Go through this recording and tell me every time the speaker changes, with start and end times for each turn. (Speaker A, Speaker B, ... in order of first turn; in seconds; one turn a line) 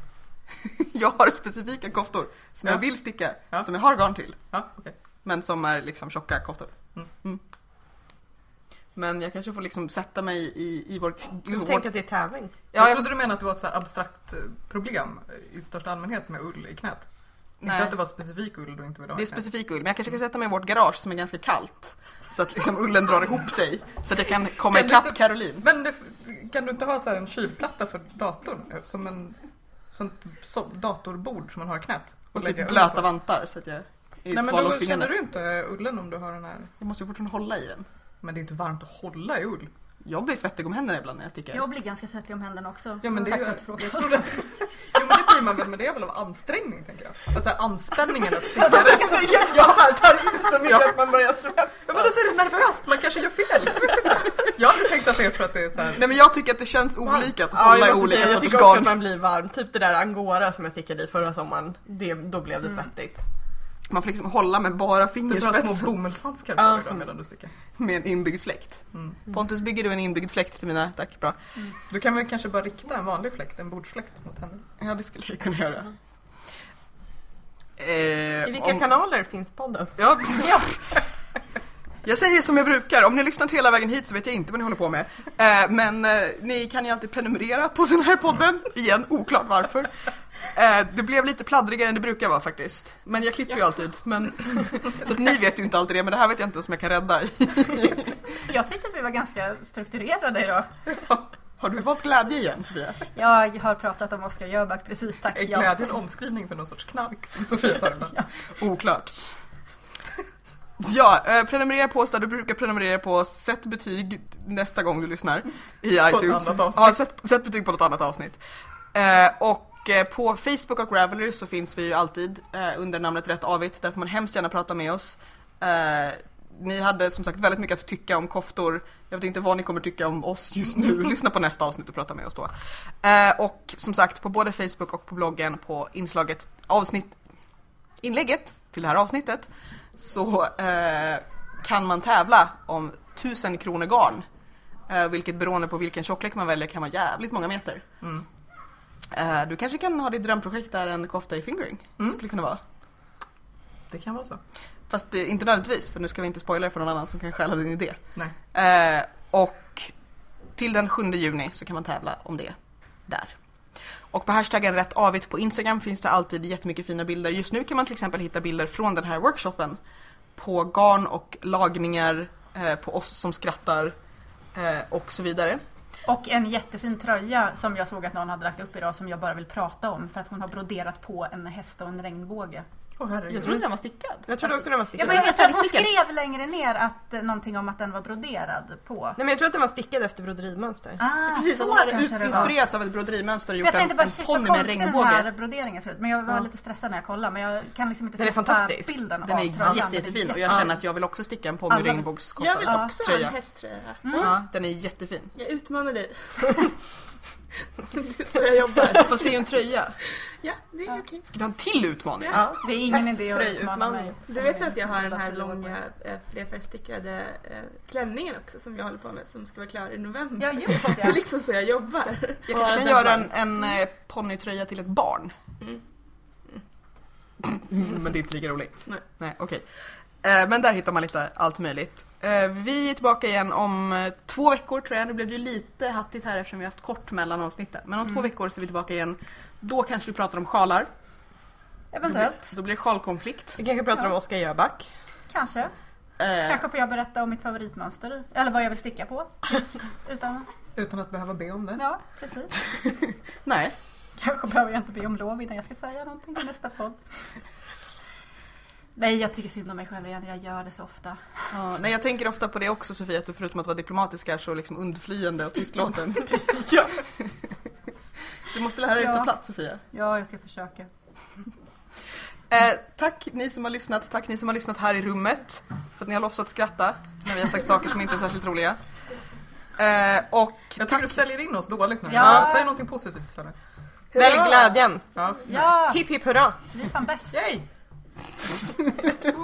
Speaker A: 0.6-4.5
Speaker B: 4.5-4.9
Speaker A: 5.2-7.4
Speaker A: 8.9-11.8
Speaker C: 11.5-12.5
Speaker B: 12.7-17.1
Speaker A: 12.8-13.1
Speaker A: 17.6-17.9
Speaker B: 17.6-19.4
Speaker A: 19.1-25.6
Speaker B: 24.7-29.4
Speaker B: 29.9-33.1
Speaker A: 32.3-35.1
Speaker B: 34.3-36.7
Speaker A: 36.8-37.9
Speaker B: 38.2-39.7
Speaker A: 40.0-41.6
Speaker D: 41.5-44.3
Speaker B: 43.0-49.5
Speaker C: 48.6-52.1
Speaker D: 49.1-49.4
Speaker B: 50.5-51.0
Speaker B: 51.9-56.1
Speaker A: 56.0-59.0
Speaker C: 57.4-63.2
Speaker A: 63.9-65.9
Speaker B: 65.3-67.5
Speaker A: 67.8-71.4
Speaker B: 68.9-69.2
Speaker B: 71.9-74.6
Speaker A: 74.8-75.9
Speaker A: 77.8-78.9
Speaker C: 78.4-80.0
Speaker A: 80.0-81.0
Speaker A: 82.0-89.9
Speaker A: 90.5-98.2
Speaker D: 98.5-100.7
Speaker B: 100.9-101.2
Speaker A: 101.6-103.0
Speaker D: 103.1-105.7
Speaker B: 105.3-108.2
Speaker A: 108.6-109.2
Speaker A: 110.8-118.4
Speaker B: 116.0-117.0
Speaker A: 118.9-137.2
Speaker A: 138.0-144.2
Speaker A: 144.9-147.8
Speaker A: 149.1-152.6
Speaker B: 153.9-154.4
Speaker A: 154.9-158.0
Speaker A: 158.5-159.9
Speaker A: 160.6-162.5
Speaker A: 163.1-163.3
Speaker A: 164.1-169.8
Speaker A: 170.3-173.9
Speaker A: 174.5-175.6
Speaker D: 176.1-182.7
Speaker B: 183.0-183.7
Speaker A: 183.3-185.9
Speaker C: 184.3-185.3
Speaker D: 184.9-189.2
Speaker C: 189.2-191.0
Speaker D: 191.0-192.5
Speaker A: 191.3-195.3
Speaker D: 193.6-200.7
Speaker C: 198.2-198.9
Speaker A: 199.2-203.3
Speaker E: 202.3-204.3
Speaker D: 202.7-202.9
Speaker D: 204.0-204.3
Speaker A: 204.1-205.3
Speaker E: 205.3-206.8
Speaker E: 207.9-209.4
Speaker A: 208.9-210.0
Speaker E: 210.4-211.3
Speaker A: 211.3-212.4
Speaker E: 212.2-212.5
Speaker C: 212.3-214.2
Speaker D: 212.6-215.7
Speaker E: 214.3-223.3
Speaker D: 220.4-221.2
Speaker A: 222.5-225.3
Speaker A: 227.4-229.6
Speaker A: 230.2-240.9
Speaker D: 241.9-242.5
Speaker A: 242.1-243.6
Speaker C: 243.6-244.9
Speaker D: 245.3-245.7
Speaker A: 246.2-246.6
Speaker D: 246.4-250.5
Speaker B: 250.8-251.8
Speaker D: 251.8-252.6
Speaker A: 253.4-253.8
Speaker D: 254.2-257.0
Speaker D: 258.9-261.2
Speaker A: 261.5-266.6
Speaker D: 266.2-266.9
Speaker A: 268.5-269.8
Speaker D: 268.9-269.3
Speaker D: 269.9-270.9
Speaker A: 272.5-278.8
Speaker A: 279.8-281.2
Speaker B: 280.8-283.5
Speaker D: 282.1-282.7
Speaker C: 284.1-285.1
Speaker E: 284.1-284.8
Speaker B: 285.1-285.7
Speaker D: 285.5-286.0
Speaker C: 285.7-286.6
Speaker D: 286.7-287.4
Speaker B: 287.3-287.7